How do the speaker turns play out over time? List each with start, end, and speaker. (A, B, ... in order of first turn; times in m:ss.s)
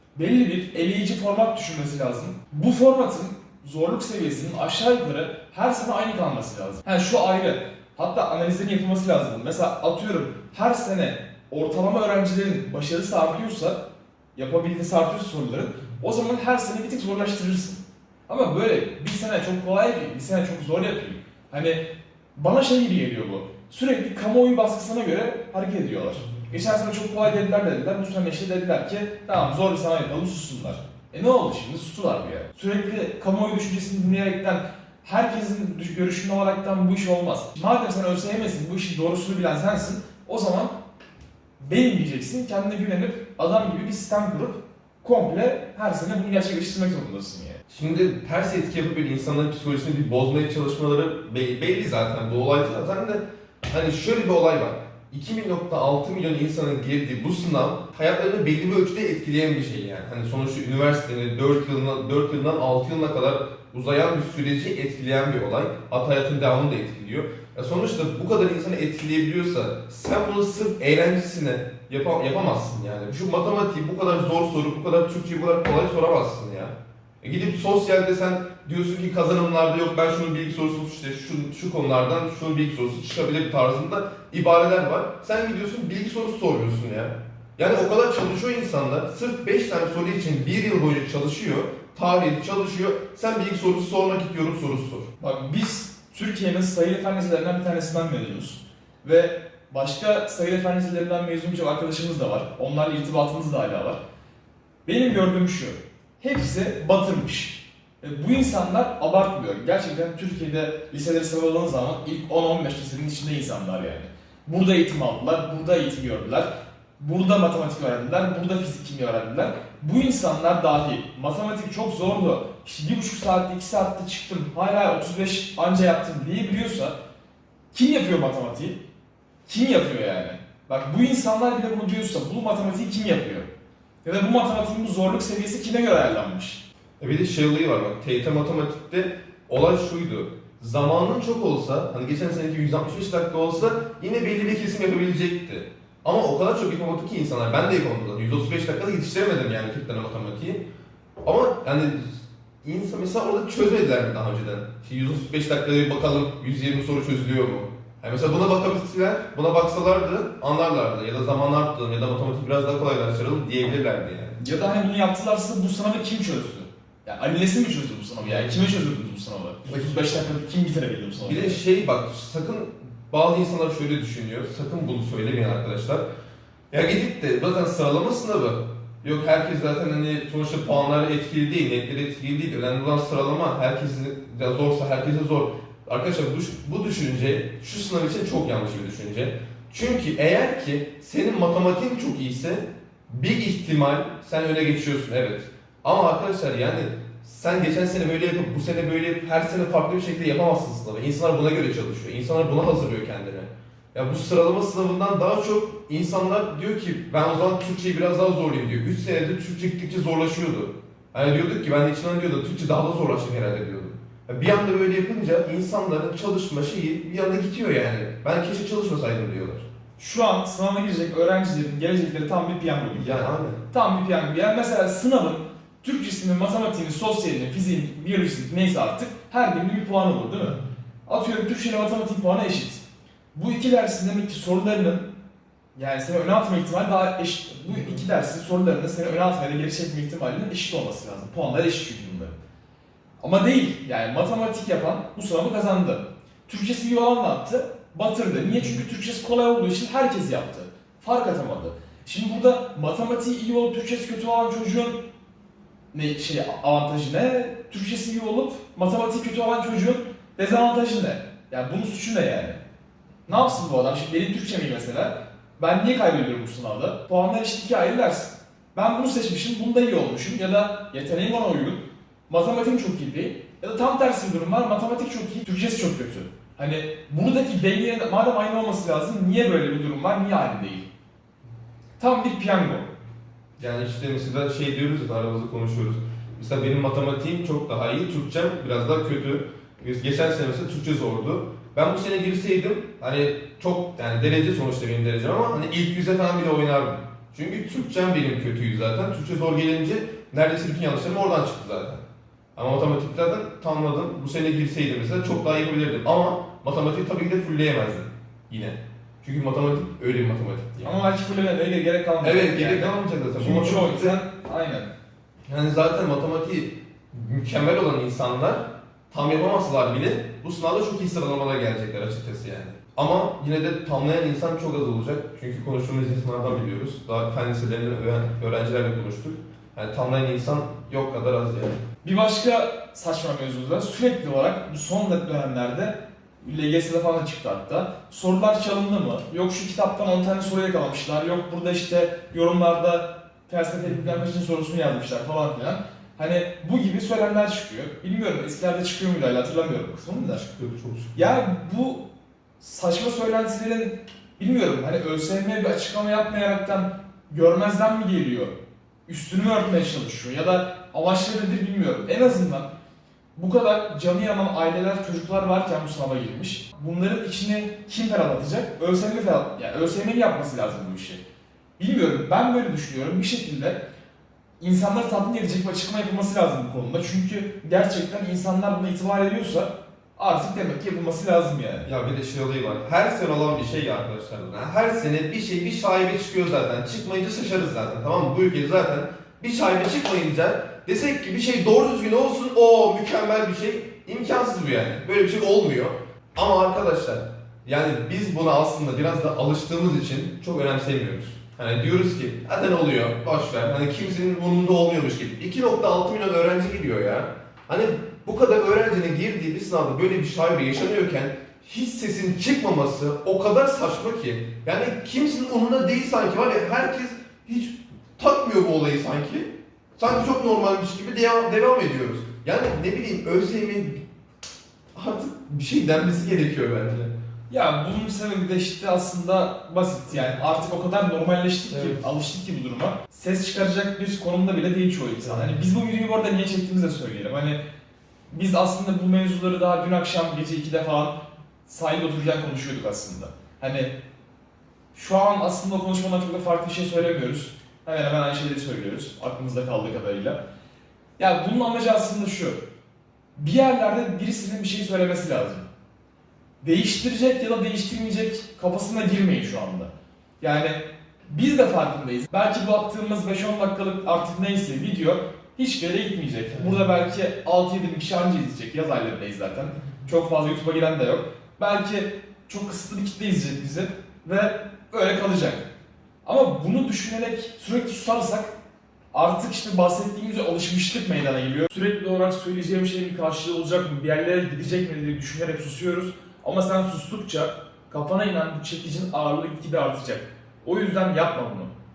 0:00.2-0:13.8 A
0:14.4-0:21.8 A
0:22.4-0:40.7 A
0:41.6-0:47.6 A
0:47.7-1:35.1 B
1:35.2-1:44.0 A
1:44.9-1:56.5 A
1:57.0-2:07.0 A
2:07.7-2:08.8 A
2:09.5-2:13.5 A
2:14.0-2:16.6 A
2:17.0-2:30.6 B
2:31.2-2:44.4 B
2:44.4-2:51.6 A
2:49.7-2:50.2 B
2:51.2-2:56.0 B
2:56.7-3:39.7 B
3:40.0-3:52.8 A
3:43.0-3:43.6 B
3:53.3-3:55.1 A
3:55.8-4:02.4 A
4:03.2-4:15.0 A
4:15.9-4:22.6 A
4:23.3-4:40.9 A
4:42.0-4:42.9 A
4:43.6-5:02.0 B
5:02.6-5:11.0 B
5:10.8-5:14.9 A
5:12.2-5:14.2 B
5:15.5-5:31.8 B
5:32.0-5:50.4 A
5:50.3-5:51.3 B
5:51.2-5:52.0 A
5:52.6-5:58.5 A
5:59.1-6:02.7 A
6:03.4-6:11.2 A
6:11.8-6:13.8 A
6:14.6-6:21.9 A
6:21.9-7:04.0 B
7:05.0-7:07.1 B
7:07.5-7:17.6 A
7:11.7-7:12.1 B
7:18.3-7:23.9 A
7:24.9-7:30.4 A
7:31.2-7:32.6 A
7:33.4-7:35.7 A
7:36.6-7:55.7 A
7:56.2-7:58.5 A
7:59.1-8:11.7 A